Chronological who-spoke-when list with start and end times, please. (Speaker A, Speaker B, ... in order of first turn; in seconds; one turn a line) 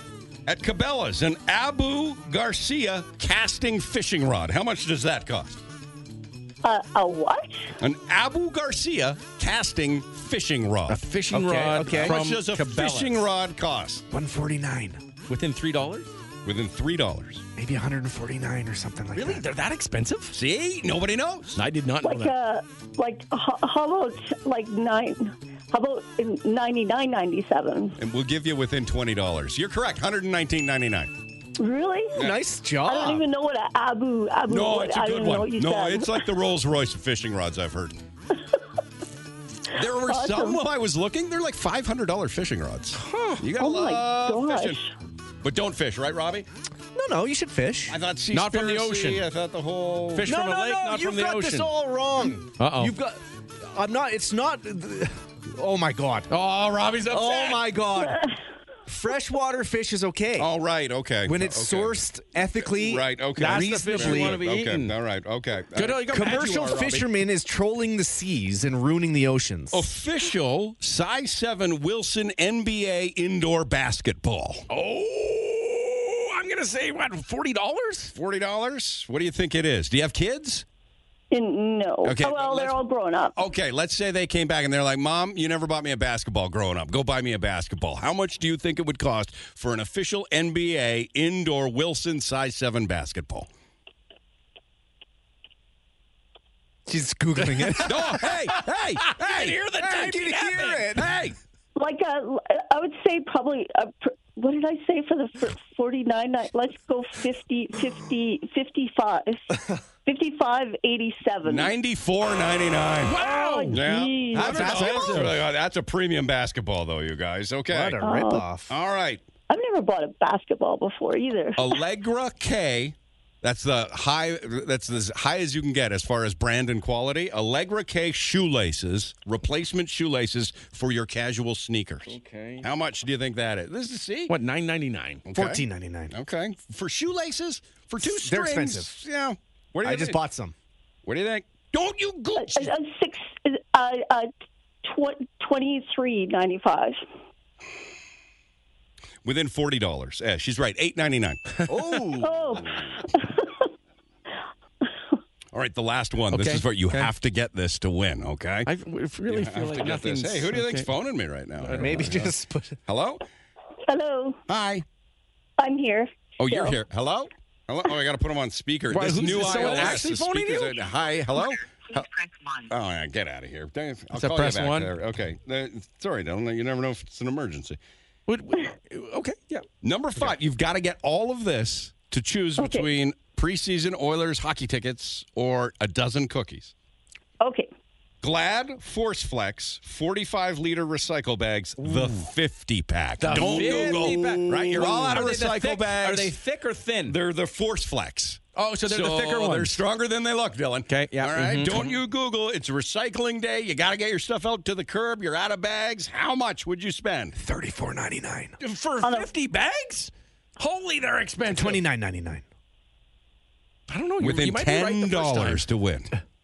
Speaker A: 0.5-5.6
Speaker B: 6.6-7.7
Speaker A: 7.8-11.0
Speaker C: 10.9-13.2
Speaker D: 11.3-12.2
Speaker A: 11.9-14.0
Speaker D: 14.1-15.0
Speaker C: 15.3-16.1
Speaker A: 16.4-17.4
Speaker D: 17.6-19.5
Speaker C: 19.1-20.4
Speaker A: 20.3-21.6
Speaker C: 21.6-22.3
Speaker B: 22.0-28.0
Speaker A: 28.0-31.1
Speaker B: 31.6-32.1
Speaker D: 32.2-33.2
Speaker B: 32.9-36.3
Speaker A: 34.5-38.0
Speaker A: 39.8-44.8
Speaker B: 40.0-40.6
Speaker C: 43.0-43.5
Speaker B: 43.6-44.9
Speaker A: 45.4-46.5
Speaker D: 47.0-48.0
Speaker A: 47.9-50.3
Speaker C: 48.3-49.2
Speaker C: 50.1-51.7
Speaker D: 50.3-56.3
Speaker C: 52.6-53.0
Speaker C: 56.3-57.6
Speaker D: 57.1-58.3
Speaker D: 58.9-60.5
Speaker A: 60.4-62.0
Speaker D: 61.2-64.4
Speaker A: 62.6-66.5
Speaker C: 63.4-64.9
Speaker C: 65.8-67.1
Speaker D: 66.1-69.8
Speaker A: 69.7-74.7
Speaker C: 74.7-78.1
Speaker A: 78.2-80.7
Speaker B: 81.3-83.4
Speaker A: 82.0-82.8
Speaker A: 83.3-93.5
Speaker D: 96.9-98.6
Speaker A: 97.8-99.6
Speaker C: 99.1-101.0
Speaker D: 99.8-101.1
Speaker A: 100.9-101.3
Speaker B: 101.8-109.5
Speaker B: 110.1-111.7
Speaker A: 111.5-118.0
Speaker C: 113.1-113.8
Speaker B: 113.2-114.6
Speaker D: 114.3-115.4
Speaker C: 114.3-115.3
Speaker D: 117.7-118.7
Speaker B: 118.0-118.5
Speaker A: 118.7-119.2
Speaker B: 119.5-121.8
Speaker A: 121.6-134.3
Speaker C: 132.1-132.7
Speaker C: 134.3-135.2
Speaker A: 135.3-140.2
Speaker D: 135.3-136.1
Speaker D: 138.0-138.9
Speaker D: 139.8-140.6
Speaker A: 141.1-142.7
Speaker B: 142.4-144.3
Speaker B: 144.8-147.0
Speaker A: 149.2-151.4
Speaker C: 151.6-152.1
Speaker D: 151.7-152.3
Speaker B: 152.2-153.5
Speaker A: 155.5-158.7
Speaker C: 156.3-157.1
Speaker C: 158.7-160.9
Speaker A: 159.3-162.3
Speaker C: 161.6-162.3
Speaker D: 161.7-162.8
Speaker A: 162.9-163.2
Speaker B: 163.9-164.4
Speaker A: 164.5-164.8
Speaker B: 165.6-166.8
Speaker A: 166.4-172.1
Speaker C: 168.9-170.8
Speaker A: 172.7-177.8
Speaker C: 174.1-174.9
Speaker C: 178.3-179.7
Speaker A: 179.8-186.7
Speaker B: 182.6-182.9
Speaker B: 187.4-187.7
Speaker A: 188.2-196.3
Speaker C: 191.8-192.2
Speaker C: 193.2-197.2
Speaker A: 197.1-207.4
Speaker C: 198.6-199.8
Speaker C: 200.9-202.0
Speaker D: 207.4-208.6
Speaker C: 208.6-211.8
Speaker B: 209.0-209.3
Speaker D: 211.5-212.4
Speaker C: 213.9-215.6
Speaker A: 214.2-216.1